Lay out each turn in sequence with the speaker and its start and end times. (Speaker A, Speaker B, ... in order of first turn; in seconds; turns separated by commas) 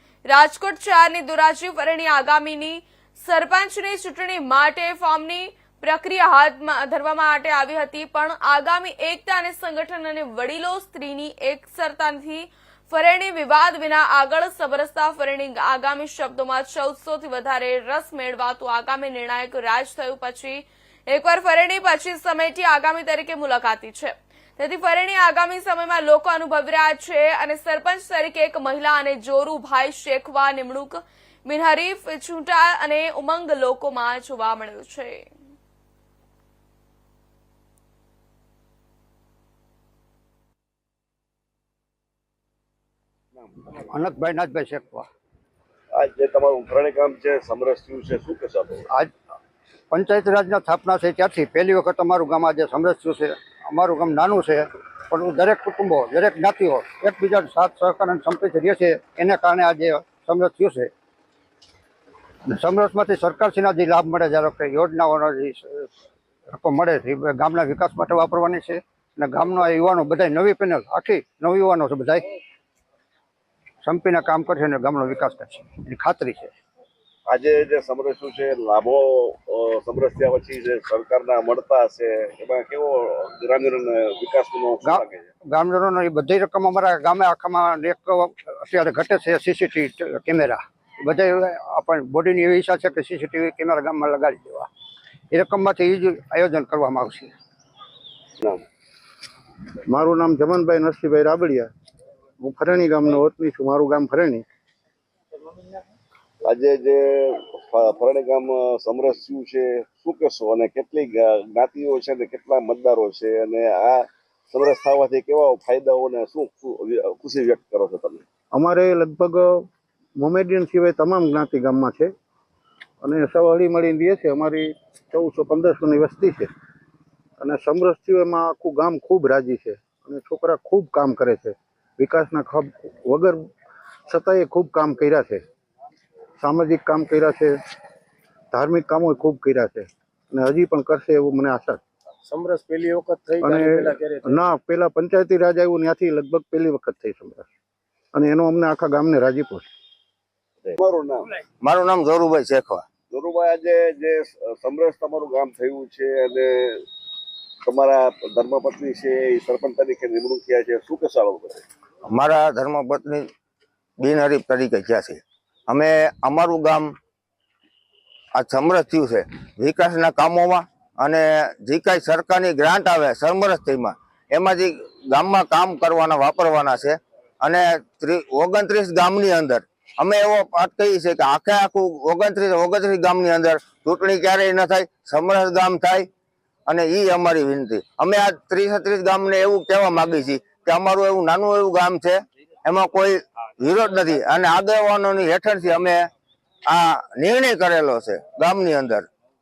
Speaker A: 0.3-35.3, Speaker B: 43.4-43.6, Speaker C: 43.7-45.1, Speaker B: 45.9-48.9, Speaker C: 49.9-60.9, Speaker C: 62.5-65.9, Speaker C: 66.5-72.3, Speaker C: 73.8-76.5, Speaker B: 77.3-85.3, Speaker C: 84.8-94.7, Speaker C: 95.3-97.3, Speaker D: 99.9-101.7, Speaker D: 102.4-104.4, Speaker B: 106.5-118.2, Speaker D: 118.5-119.7, Speaker D: 120.2-122.1, Speaker D: 123.0-126.5, Speaker D: 127.4-133.4, Speaker D: 134.1-135.4, Speaker D: 136.4-137.6, Speaker D: 138.5-141.8, Speaker E: 142.3-144.4, Speaker D: 143.4-147.5, Speaker D: 148.1-149.7, Speaker B: 150.7-151.3, Speaker F: 151.6-152.8, Speaker B: 153.1-156.8, Speaker B: 157.6-161.6, Speaker F: 162.1-163.3, Speaker F: 164.0-166.9, Speaker F: 168.3-186.1, Speaker F: 186.7-196.1, Speaker F: 196.7-199.1